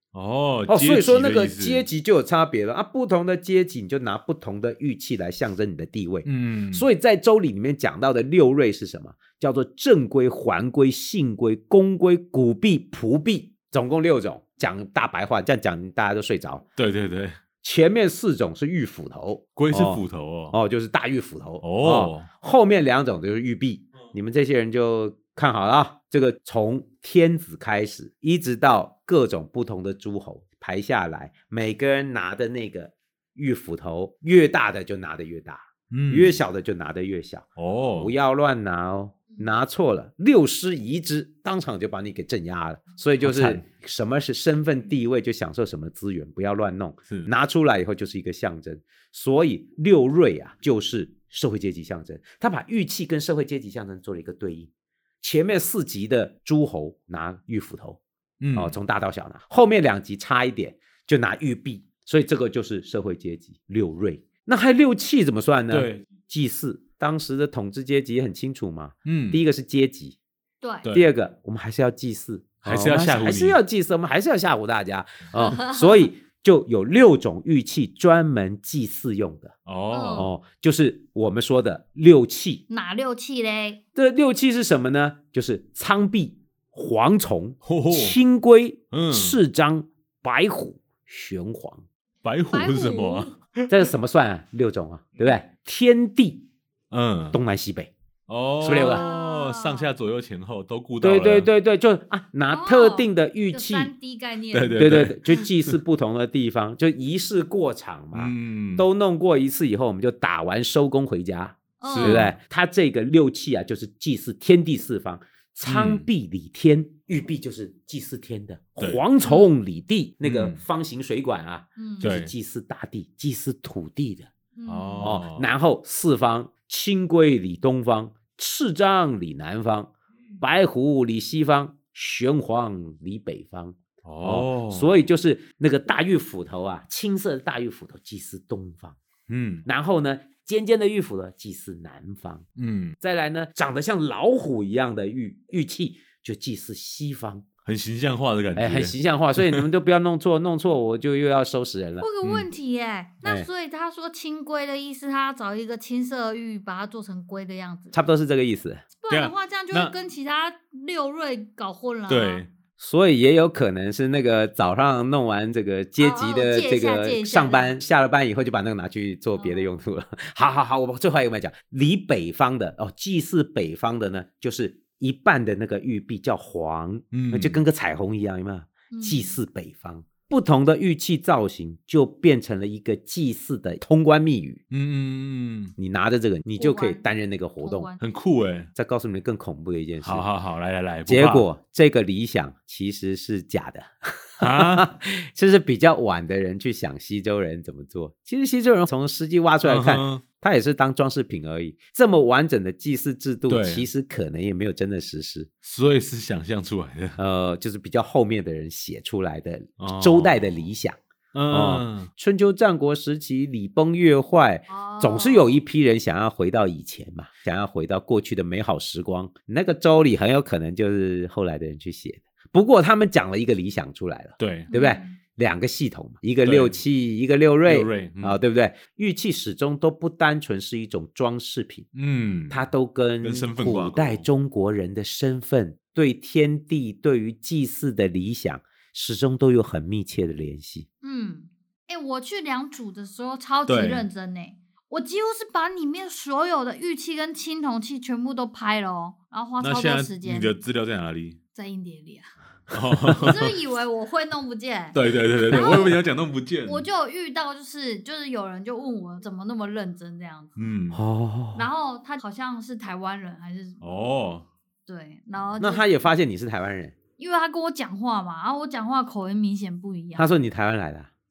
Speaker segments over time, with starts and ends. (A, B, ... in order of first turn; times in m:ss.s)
0:00.1-0:01.9 A
0:00.7-0:16.6 B
0:06.2-0:06.9 A
0:16.8-0:17.4 A
0:17.6-0:54.7 B
0:19.5-0:20.6 A
0:21.6-0:22.3 A
0:35.9-0:36.4 A
0:37.6-0:38.1 A
0:43.2-0:43.6 A
0:55.2-0:58.0 B
0:58.4-0:58.7 A
0:58.5-1:10.2 B
1:05.7-1:06.0 A
1:09.0-1:09.4 A
1:10.6-1:10.9 C
1:10.9-1:19.5 B
1:12.6-1:13.6 A
1:15.4-1:16.0 C
1:19.6-1:20.3 A
1:19.9-1:20.3 C
1:20.1-1:22.6 B
1:22.7-1:23.8 C
1:23.9-1:31.8 B
1:27.6-1:28.2 A
1:28.9-1:29.4 A
1:32.2-1:33.7 A
1:32.5-1:33.3 C
1:33.7-1:36.4 B
1:36.9-1:37.4 A
1:37.3-1:37.9 B
1:38.3-1:41.5 A
1:38.6-1:39.0 B
1:38.8-1:39.9 C
1:41.0-1:43.9 B
1:42.5-1:44.8 C
1:44.5-1:45.7 A
1:44.7-2:04.3 B
1:48.1-1:48.9 A
1:51.8-1:52.3 C
1:51.8-1:52.3 A
1:55.6-1:56.0 A
1:59.2-1:59.5 C
2:00.2-2:00.6 A
2:01.8-2:02.1 C
2:02.0-2:02.3 A
2:04.6-2:05.1 C
2:04.7-2:05.5 A
2:05.0-2:19.0 B
2:14.0-2:14.9 A
2:19.3-2:19.6 A
2:19.6-2:22.4 B
2:22.6-2:23.0 A
2:23.0-2:27.4 B
2:27.6-2:29.6 A
2:28.6-2:32.0 B
2:32.0-2:37.9 C
2:33.2-2:33.5 B
2:37.9-2:38.8 B
2:39.0-2:42.4 C
2:39.1-2:39.9 A
2:42.1-2:42.5 A
2:42.8-3:04.6 B
2:46.0-2:47.8 C
2:49.4-2:49.7 C
2:57.1-2:57.6 A
2:58.9-2:59.4 C
3:04.7-3:05.7 A
3:05.8-3:07.9 B
3:06.6-3:07.0 C
3:07.6-3:08.0 C
3:08.0-3:08.7 A
3:08.7-3:10.2 B
3:10.0-3:11.4 A
3:11.1-3:25.5 B
3:14.4-3:14.9 A
3:19.6-3:20.2 A
3:23.5-3:23.9 A
3:25.6-3:27.2 A
3:27.2-3:31.0 B
3:29.8-3:30.6 A
3:31.3-3:32.1 A
3:31.5-3:51.9 B
3:34.7-3:35.6 C
3:44.4-3:44.7 A
3:44.7-3:45.2 C
3:46.4-3:46.8 A
3:47.6-3:48.4 A
3:51.9-3:52.6 A
3:52.5-4:00.9 B
3:53.2-3:54.2 A
4:01.0-4:10.5 C
4:03.7-4:04.0 A
4:09.6-4:11.4 A
4:11.5-4:12.3 C
4:12.7-4:13.5 A
4:13.1-4:15.0 C
4:14.9-4:16.8 A
4:15.5-4:16.0 C
4:16.6-4:20.6 C
4:20.6-4:21.0 A
4:20.9-4:21.7 B
4:21.5-4:23.8 C
4:23.8-4:24.4 A
4:24.9-4:25.9 C
4:25.6-4:27.0 B
4:27.2-4:30.3 C
4:30.2-4:31.1 B